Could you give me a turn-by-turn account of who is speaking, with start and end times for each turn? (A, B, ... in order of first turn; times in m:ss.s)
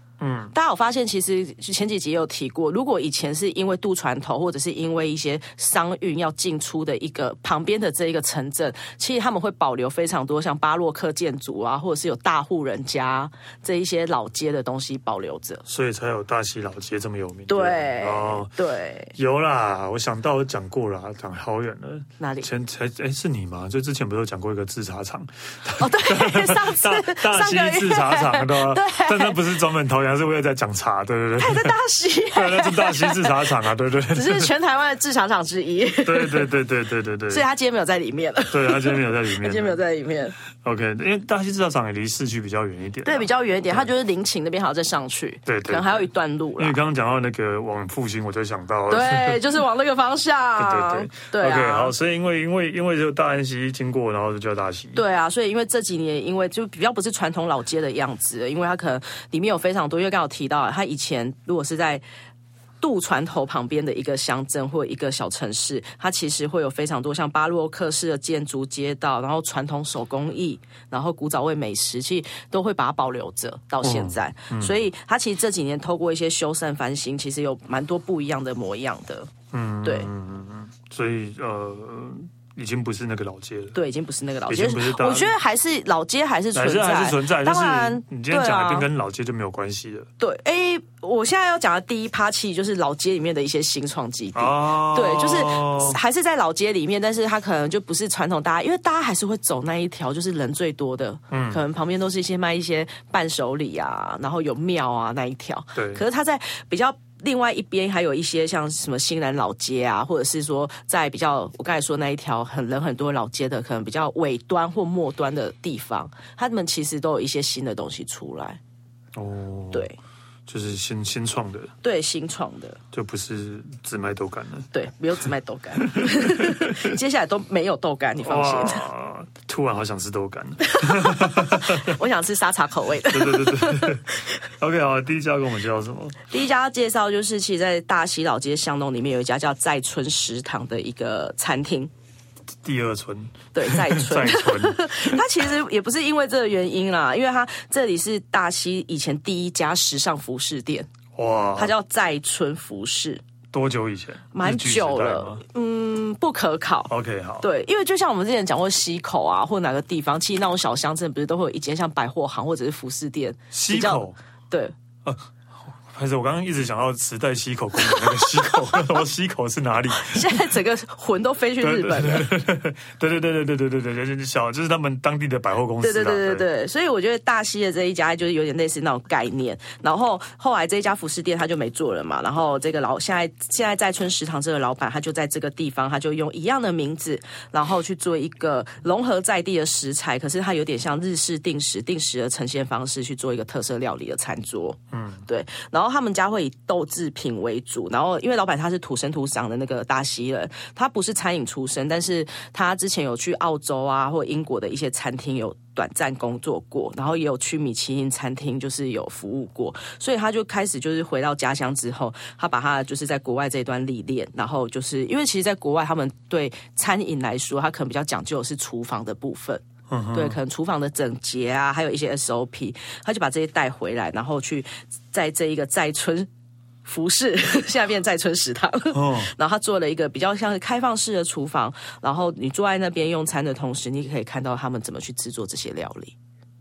0:00.2-0:00.5 A
0:00.5-0:15.6 B
0:15.6-0:18.5 A
0:17.5-0:19.1 B
0:19.1-0:31.7 A
0:22.2-0:22.5 B
0:25.8-0:29.4 B
0:31.4-0:33.5 B
0:32.3-0:34.5 A
0:34.1-0:36.5 B
0:36.0-0:37.4 A
0:37.3-0:40.3 B
0:38.5-0:39.8 A
0:40.6-0:43.9 A
0:43.0-0:46.8 B
0:45.4-0:49.6 A
0:48.9-0:51.9 B
0:50.6-0:55.0 A
0:54.9-1:02.0 B
1:02.8-1:19.3 B
1:13.8-1:14.7 A
1:19.5-1:23.8 A
1:19.8-1:20.1 B
1:23.7-1:28.9 B
1:24.5-1:25.3 A
1:26.5-1:30.1 A
1:30.2-1:58.6 B
1:34.3-1:36.0 A
1:41.3-1:41.6 A
1:45.7-1:46.0 A
1:59.1-1:59.9 A
1:59.7-2:00.0 B
2:00.5-2:01.7 A
2:01.8-2:02.8 B
2:02.9-2:04.7 A
2:04.7-2:08.8 B
2:05.8-2:07.0 A
2:08.2-2:12.0 A
2:10.6-2:14.3 B
2:13.1-2:16.2 A
2:16.3-2:21.9 B
2:22.6-2:25.4 A
2:23.5-2:30.9 B
2:31.1-2:31.7 A
2:31.6-2:33.2 B
2:33.5-2:35.4 A
2:34.3-2:44.7 B
2:36.9-2:37.5 A
2:43.5-2:44.2 A
2:45.0-2:50.4 A
2:47.8-2:48.8 B
2:49.9-2:52.3 B
2:51.6-2:56.4 A
2:55.8-3:39.6 B
3:14.9-3:15.2 A
3:39.9-3:40.4 A
3:40.1-3:46.3 B
3:46.8-3:56.2 B
3:48.9-3:49.3 A